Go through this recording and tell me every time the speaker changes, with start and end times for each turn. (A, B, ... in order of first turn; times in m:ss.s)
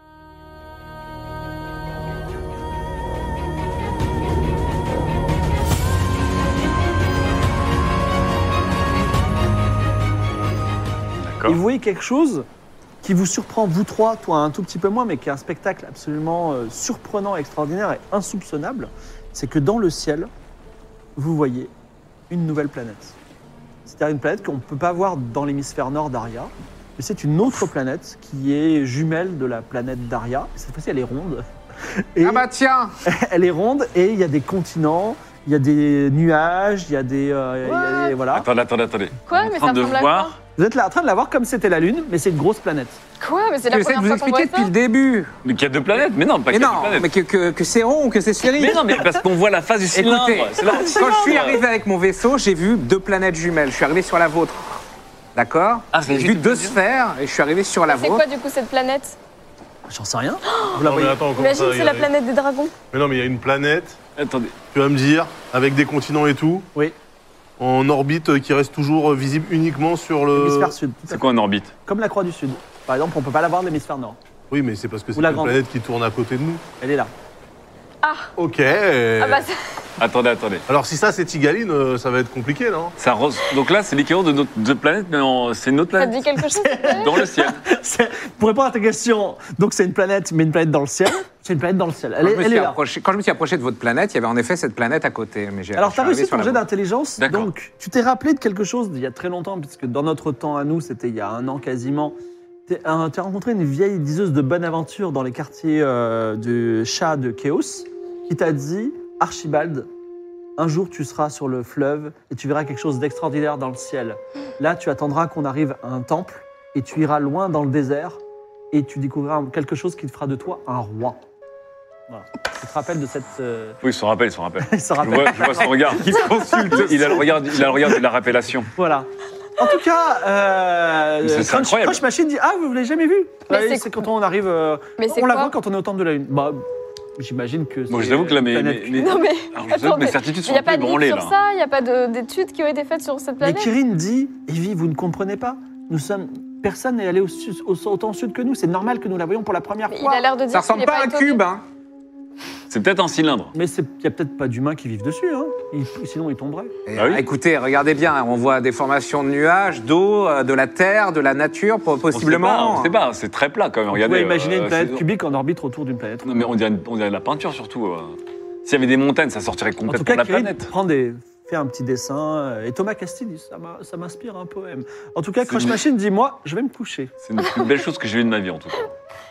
0:11.2-0:11.6 A
0:11.4-0:12.5 B
0:13.0-0:20.3 B
0:21.2-0:21.7 B
0:22.3-0:23.2 B
0:23.8-0:32.5 B
0:32.2-0:32.9 C
0:33.0-0:38.5 B
0:37.7-0:38.2 D
0:38.3-0:40.4 A
0:39.3-0:40.4 D
0:40.6-0:43.0 B
0:43.2-0:44.7 D
0:43.6-0:45.3 C
0:45.4-0:47.1 A
0:46.5-0:49.2 C
0:48.6-0:51.6 A
0:49.9-0:54.6 C
0:55.4-0:58.3 C
0:55.9-0:56.8 A
0:57.9-0:59.2 D
0:59.9-1:01.2 B
1:00.5-1:00.8 D
1:00.8-1:02.1 E
1:01.3-1:02.8 D
1:02.9-1:04.0 E
1:04.2-1:04.6 A
1:04.7-1:06.7 E
1:07.6-1:10.8 E
1:10.3-1:11.2 B
1:11.1-1:11.7 A
1:11.9-1:14.2 B
1:14.5-1:16.6 E
1:15.2-1:15.6 B
1:16.8-1:17.1 B
1:18.0-1:18.3 D
1:18.4-1:19.5 E
1:19.2-1:19.8 D
1:20.0-1:20.7 A
1:20.7-1:23.0 E
1:23.0-1:27.6 A
1:26.0-1:27.2 D
1:26.5-1:32.8 B
1:32.2-1:36.6 C
1:35.8-1:42.2 B
1:37.2-1:37.5 A
1:42.7-1:49.9 B
1:50.6-1:58.2 B
1:58.7-2:01.2 B
2:02.1-2:03.8 B
2:03.8-2:08.7 A
2:04.6-2:06.2 B
2:05.8-2:07.8 C
2:08.8-2:16.6 B
2:11.2-2:12.0 A
2:13.5-2:14.0 D
2:15.0-2:15.5 D
2:17.2-2:19.1 B
2:17.9-2:21.4 A
2:19.0-2:23.7 D
2:23.4-2:30.2 B
2:29.9-2:31.4 D
2:30.5-2:31.6 C
2:32.7-2:33.5 A
2:33.5-2:36.7 B
2:36.9-2:43.0 C
2:37.0-2:37.2 A
2:42.1-2:45.0 A
2:43.9-2:46.3 B
2:46.2-2:50.7 A
2:49.9-2:57.1 B
2:55.5-2:55.8 A
2:57.2-2:58.9 A